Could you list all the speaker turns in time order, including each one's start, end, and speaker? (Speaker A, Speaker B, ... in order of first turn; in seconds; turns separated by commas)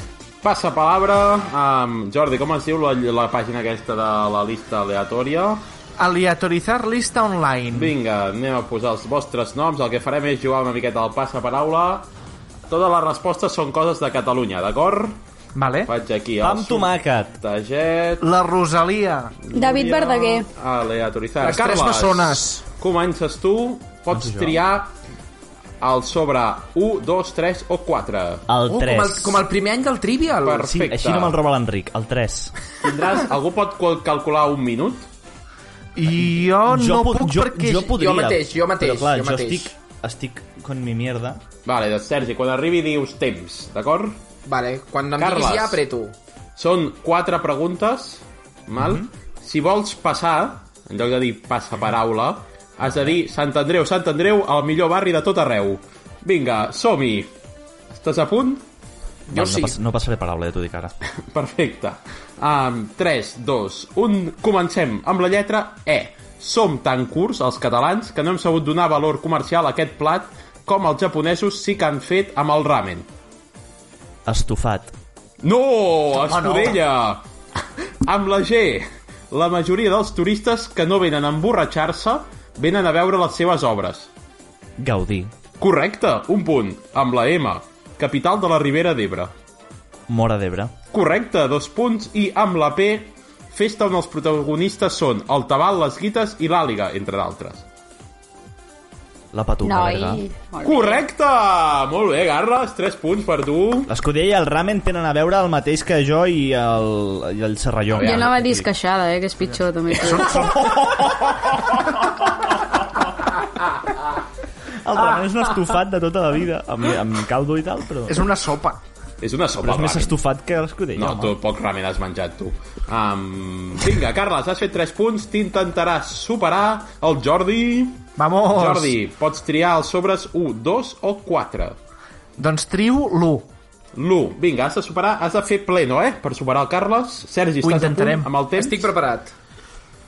Speaker A: 0.4-5.6, Speaker B: 6.0-7.9, Speaker A: 7.7-12.0, Speaker A: 12.7-15.2, Speaker B: 15.5-15.9, Speaker A: 15.8-18.2, Speaker C: 16.4-17.3, Speaker B: 18.2-19.3, Speaker A: 19.5-24.9, Speaker D: 19.5-20.5, Speaker E: 21.4-22.6, Speaker C: 24.1-24.6, Speaker A: 25.8-28.5, Speaker C: 28.5-29.4, Speaker E: 28.6-30.8, Speaker A: 30.4-31.4, Speaker C: 30.6-32.5, Speaker A: 32.8-35.1, Speaker B: 36.0-37.9, Speaker C: 36.2-41.4, Speaker E: 37.9-39.7, Speaker A: 41.6-44.2, Speaker E: 44.4-46.1, Speaker A: 45.2-45.8, Speaker A: 46.5-57.3, Speaker C: 48.8-49.1, Speaker A: 57.9-58.6, Speaker E: 59.3-59.8, Speaker C: 59.3-60.9, Speaker A: 61.3-73.1, Speaker C: 74.2-74.9, Speaker A: 75.4-77.2, Speaker B: 76.2-76.8, Speaker A: 78.0-84.1, Speaker C: 84.8-85.3, Speaker A: 85.6-89.3, Speaker C: 90.1-90.7, Speaker A: 90.9-97.6, Speaker C: 99.3-100.2, Speaker D: 99.6-101.0, Speaker A: 100.6-103.9, Speaker C: 103.9-108.7, Speaker A: 107.9-108.3, Speaker D: 108.0-110.6, Speaker B: 110.1-110.6, Speaker C: 114.8-118.2, Speaker B: 118.1-118.8, Speaker A: 119.2-120.2, Speaker C: 119.6-121.3, Speaker A: 121.0-131.8, Speaker B: 128.2-128.9, Speaker B: 132.4-133.4, Speaker A: 133.9-138.9, Speaker B: 137.6-138.3, Speaker E: 138.5-139.3